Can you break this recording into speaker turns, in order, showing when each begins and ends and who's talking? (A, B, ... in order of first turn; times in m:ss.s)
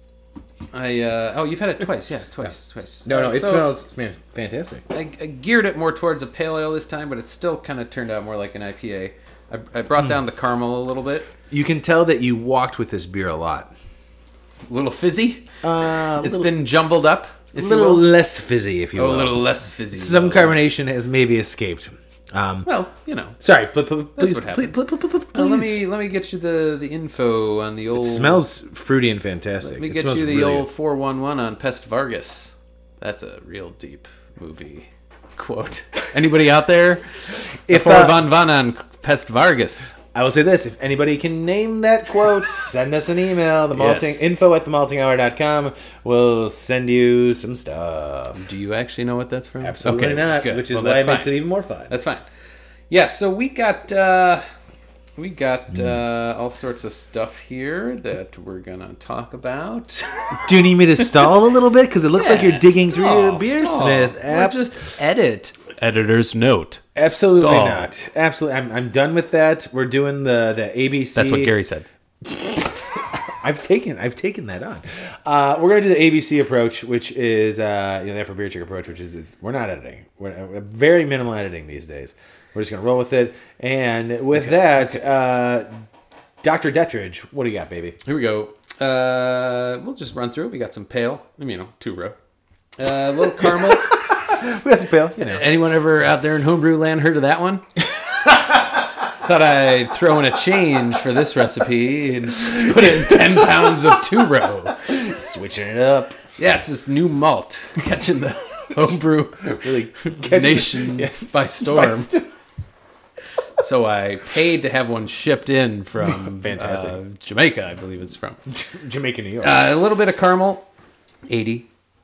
0:00.7-0:03.7 A
0:03.0-0:04.8 B
0:04.9-0:11.3 A
0:11.5-0:13.7 B
0:14.7-0:15.4 A
0:15.6-0:16.6 B
0:16.2-0:18.1 A
0:17.6-0:22.7 B
0:19.0-0:20.6 A
0:22.6-0:23.4 A
0:23.4-0:25.8 B
0:24.2-0:24.8 A
0:25.3-0:28.4 A
0:28.0-0:30.7 B
0:29.6-0:37.0 A
0:37.7-0:38.2 B
0:37.7-0:40.0 A
0:40.1-0:48.4 B
0:43.7-0:44.3 A
0:48.4-0:51.4 A
0:49.6-0:52.0 B
0:51.9-0:52.2 A
0:52.9-0:54.4 A
0:55.2-1:00.4 A
1:00.4-1:04.6 B
1:02.1-1:07.9 A
1:07.0-1:11.5 B
1:11.2-1:11.8 A
1:12.2-1:25.7 B
1:24.3-1:25.0 A
1:26.4-1:28.0 B
1:28.0-1:32.2 A
1:32.8-1:34.0 A
1:33.4-1:35.5 B
1:35.2-1:37.6 A
1:39.2-1:44.8 A
1:44.8-1:46.2 B
1:46.4-1:52.1 A
1:49.5-1:52.3 B
1:53.6-1:58.4 A
1:56.0-1:57.0 B
1:58.5-1:59.6 B
1:59.4-2:00.7 A
2:01.3-2:01.7 A